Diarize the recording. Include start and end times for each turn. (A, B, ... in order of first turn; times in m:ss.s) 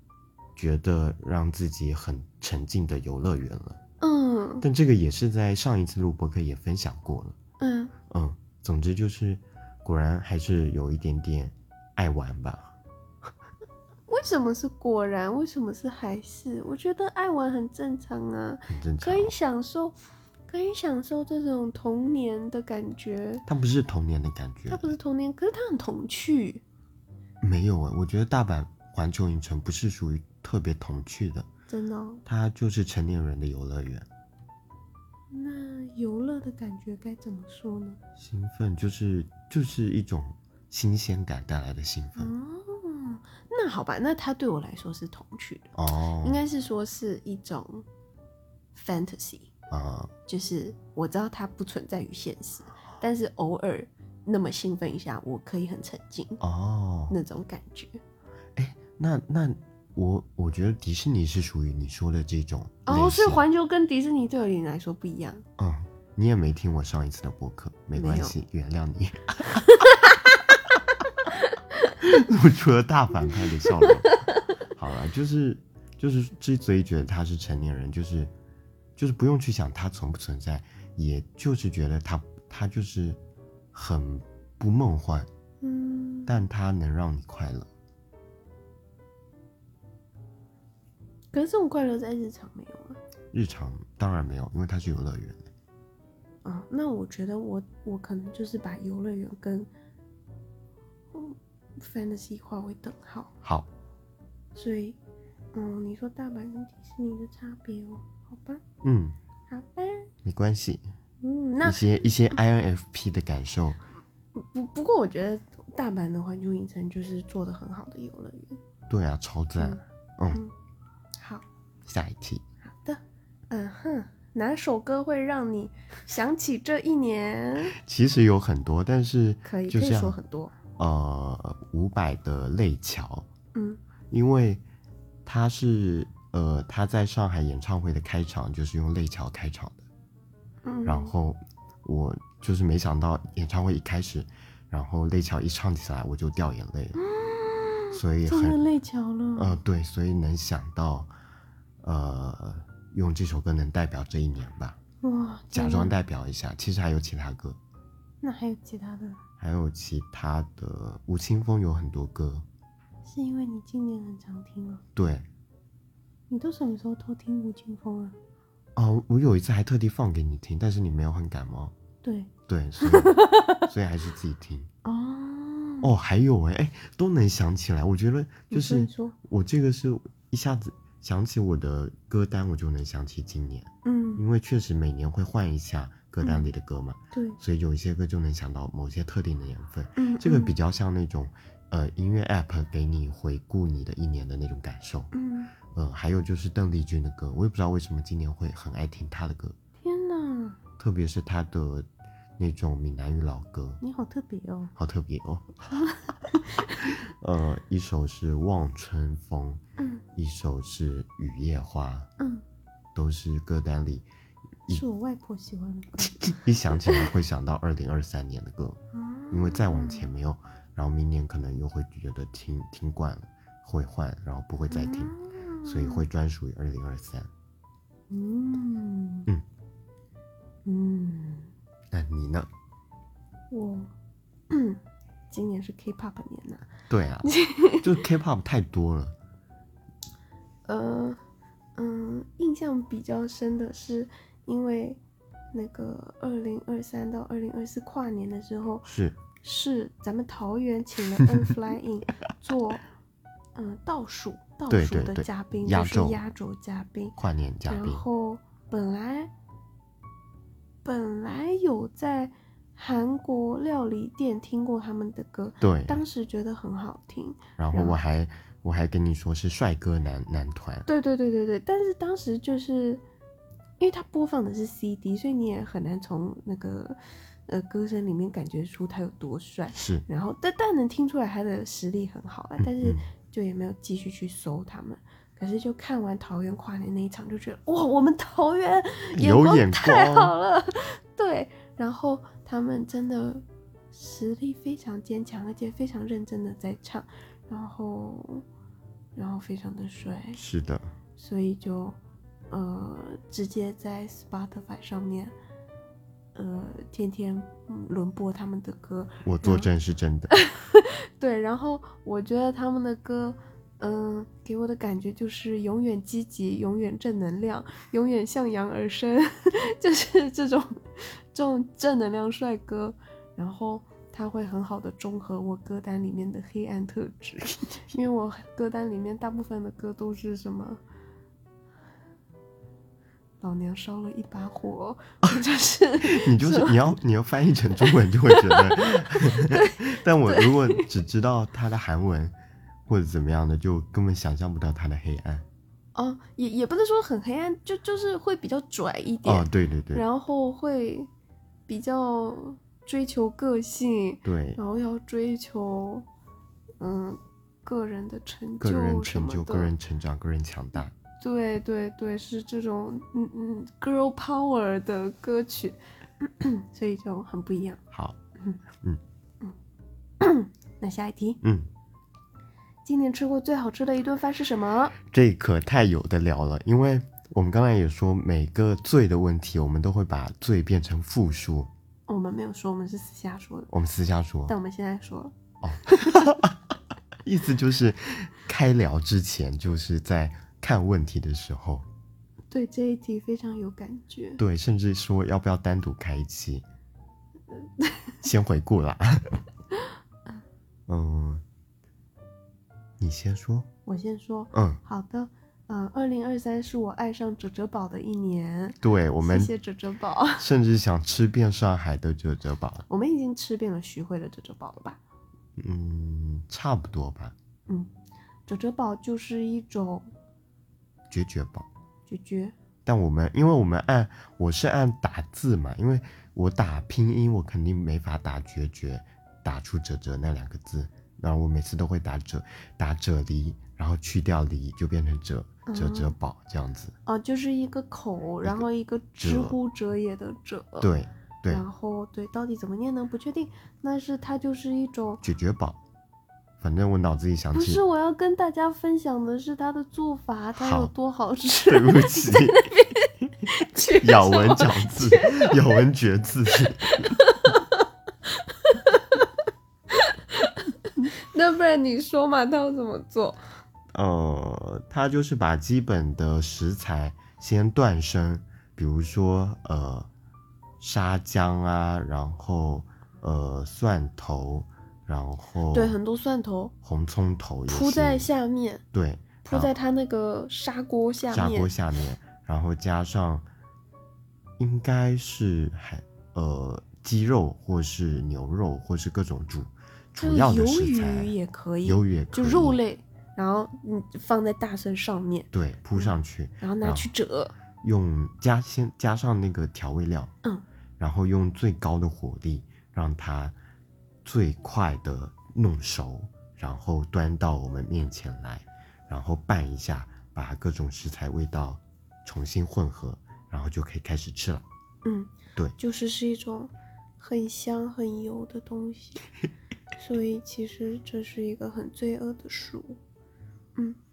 0:00.6-0:03.8 A
0:04.0-0:04.6 B
0:04.6-0:07.4 A
0:07.6-0:07.9 B
0:08.1-0:12.7 A
0:14.1-0:20.0 B
0:18.7-0:19.3 A
0:20.5-0:23.4 B
0:23.5-0:25.0 A
0:24.7-0:26.6 B
0:27.4-0:31.5 A
0:31.7-0:32.2 B
0:32.2-0:34.1 A
0:35.3-0:38.0 B
0:38.2-0:42.3 A
0:42.2-0:47.8 B
0:45.8-0:46.4 A
0:48.7-0:49.5 B
0:49.7-0:50.1 A
0:50.3-0:56.4 B
0:56.4-0:57.2 A
0:57.1-0:58.0 B
0:58.6-1:03.4 A
1:02.8-1:05.4 B
1:05.6-1:09.6 A
1:07.9-1:08.3 B
1:09.6-1:10.4 B
1:11.3-1:11.9 B
1:12.0-1:14.2 A
1:13.8-1:14.4 B
1:14.8-1:18.3 A
1:19.0-1:23.2 A
1:23.7-1:25.3 A
1:25.6-1:26.4 B
1:26.3-1:27.7 A
1:31.3-1:33.0 B
1:33.3-1:35.5 A
1:36.4-1:39.7 B
1:41.1-1:43.3 B
1:43.4-1:43.7 A
1:44.5-1:45.0 B
1:45.5-1:48.6 B
1:48.8-1:49.2 A
1:49.5-1:50.1 B
1:50.2-1:50.8 A
1:51.2-1:52.0 B
1:51.6-1:53.8 A
1:54.3-1:58.6 B
1:58.9-2:00.4 A
1:59.6-2:00.5 B
2:01.2-2:01.4 B
2:01.8-2:02.4 A
2:02.6-2:07.8 B
2:07.7-2:10.2 A
2:09.4-2:10.5 B
2:10.8-2:13.3 A
2:13.5-2:13.8 B
2:14.1-2:14.6 A
2:15.2-2:19.8 A
2:20.6-2:21.1 B
2:20.8-2:27.0 A
2:27.0-2:29.6 B
2:27.9-2:28.6 A
2:29.4-2:31.1 A
2:31.8-2:34.8 A
2:35.0-2:36.0 B
2:35.5-2:37.6 A
2:38.2-2:39.2 B
2:39.4-2:42.4 A
2:43.0-2:44.8 B
2:45.0-2:45.3 A
2:46.3-2:48.2 B
2:48.8-2:51.7 A
2:52.0-2:52.3 B
2:52.5-2:54.7 A
2:52.8-2:53.6 B
2:54.8-2:55.9 B
2:55.8-3:15.1 A
2:58.5-2:59.2 B
3:03.8-3:04.2 B
3:06.2-3:06.5 B
3:07.1-3:07.4 B
3:10.0-3:10.5 B
3:15.1-3:15.5 B
3:15.7-3:19.6 A
3:19.8-3:20.6 B
3:20.8-3:21.9 A
3:22.4-3:23.8 A
3:23.8-3:24.7 B
3:24.8-3:25.6 A
3:25.7-3:26.9 B
3:26.8-3:29.6 A
3:29.8-3:30.0 B
3:30.1-3:32.1 A
3:32.9-3:34.0 A
3:34.7-3:36.3 B
3:36.1-3:38.8 A
3:38.9-3:40.1 B
3:39.3-3:45.1 A
3:44.7-3:46.0 B
3:45.6-3:47.3 A
3:48.1-3:49.3 B
3:50.6-3:51.5 B
3:51.9-3:52.5 A
3:53.5-3:53.9 B
3:54.5-3:56.7 B
3:56.9-3:57.3 A
3:57.2-3:57.9 B
3:57.8-3:59.1 A
4:00.6-4:01.2 B
4:01.8-4:05.0 B
4:05.5-4:08.9 B
4:08.8-4:09.2 A
4:09.4-4:12.8 B
4:13.6-4:17.2 B
4:14.7-4:16.2 A
4:17.2-4:18.0 A
4:17.7-4:19.3 B
4:20.8-4:28.0 B
4:25.6-4:26.0 A
4:27.6-4:30.9 A
4:30.8-4:33.0 B
4:33.8-4:58.4 B
4:39.7-4:40.0 A
4:42.6-4:43.0 A
4:49.2-4:50.3 A
4:59.2-5:00.4 B
5:00.4-5:00.9 A
5:01.2-5:02.0 B
5:02.5-5:05.3 B
5:06.3-5:09.7 B
5:09.2-5:10.3 A
5:10.3-5:30.8 B
5:33.4-5:36.8 B
5:36.0-5:42.3 A
5:38.3-5:40.9 B
5:42.9-5:45.4 A
5:45.9-5:51.1 B
5:49.2-5:50.0 A
5:51.7-5:56.1 B
5:54.2-5:54.6 A
5:56.8-5:59.7 B
5:58.6-6:00.9 A
6:01.2-6:07.8 B
6:07.9-6:08.2 A
6:10.2-6:11.4 B
6:11.4-6:11.7 A
6:12.8-6:15.0 B
6:15.0-6:21.7 A
6:22.1-6:23.7 B
6:23.7-6:24.5 A
6:24.5-6:26.4 B
6:25.6-6:26.6 A
6:27.2-6:31.9 A
6:32.5-6:34.4 B
6:34.4-6:36.6 A
6:37.8-6:38.1 B
6:38.2-6:39.3 A
6:40.9-6:41.4 A
6:43.0-6:43.7 A
6:43.8-6:50.4 B
6:44.5-6:44.8 A
6:48.8-6:49.5 A
6:50.4-6:52.8 A
6:52.9-6:55.0 B
6:55.6-6:57.4 A
6:58.5-7:00.1 B
7:01.1-7:01.7 A
7:02.1-7:02.5 B
7:02.8-7:16.9 A
7:15.6-7:16.1 B
7:17.0-7:20.9 B
7:19.2-7:19.6 A
7:20.8-7:21.6 A
7:21.5-7:25.2 B
7:25.2-7:25.8 A
7:26.6-7:27.8 A
7:27.5-7:35.8 B
7:30.6-7:30.9 A
7:31.7-7:32.7 A
7:33.9-7:37.2 A
7:36.8-7:37.8 B
7:38.4-7:39.3 B
7:39.9-7:43.4 B
7:43.9-7:50.1 A
7:50.8-7:56.0 A
7:55.7-7:56.7 B
7:56.8-7:58.3 A
7:57.7-7:58.8 B
7:58.9-7:59.7 A
7:59.4-8:01.7 B
8:01.3-8:03.4 A
8:04.6-8:11.3 A
8:10.2-8:17.5 B
8:11.8-8:12.8 A
8:15.5-8:17.1 A
8:17.8-8:20.3 A
8:21.0-8:23.5 A
8:24.2-8:34.6 A
8:35.0-8:39.2 B
8:40.0-8:43.0 B